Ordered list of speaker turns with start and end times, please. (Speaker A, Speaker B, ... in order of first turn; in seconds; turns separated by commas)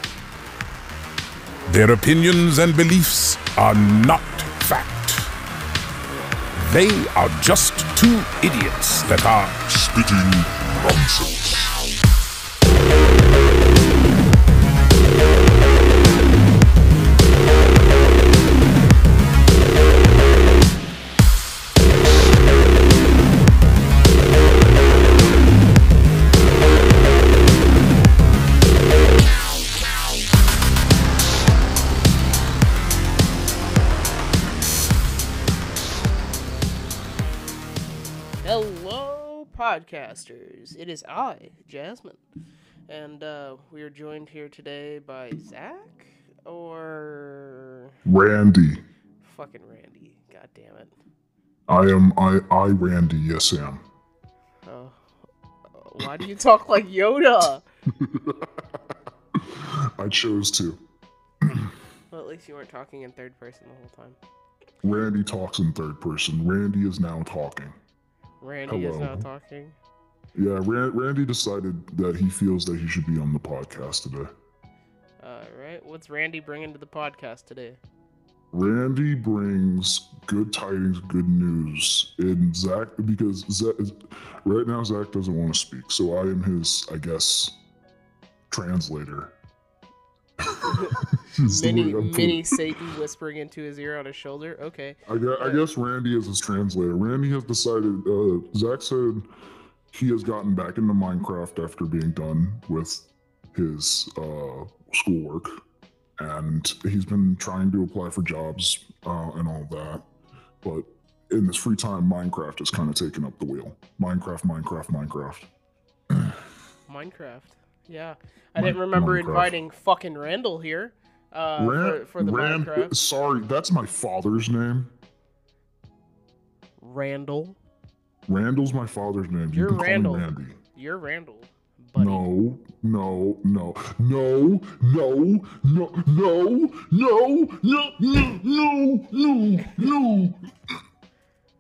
Speaker A: 1.7-5.3, Speaker A: 6.6-10.1, Speaker B: 10.1-11.5, Speaker C: 38.4-42.2, Speaker C: 42.9-47.9, Speaker B: 48.0-48.8, Speaker C: 49.2-51.0, Speaker B: 51.7-53.8, Speaker C: 54.6-55.0, Speaker C: 55.7-57.6, Speaker B: 58.0-58.3, Speaker B: 59.4-60.8, Speaker B: 61.4-61.7, Speaker C: 62.1-64.2, Speaker B: 64.8-67.8, Speaker C: 68.4-69.8, Speaker B: 68.7-69.3, Speaker B: 70.4-74.3, Speaker C: 75.2-77.8, Speaker B: 78.5-87.5, Speaker B: 88.5-89.3, Speaker B: 90.5-92.8, Speaker C: 90.6-95.7, Speaker B: 95.1-99.3, Speaker B: 99.9-105.5, Speaker B: 106.2-110.1, Speaker B: 110.6-115.5, Speaker B: 116.1-116.4, Speaker C: 116.9-122.9, Speaker B: 118.6-119.5, Speaker B: 121.6-124.9, Speaker C: 126.8-127.6, Speaker B: 128.3-130.6, Speaker C: 129.5-132.3, Speaker B: 132.0-140.4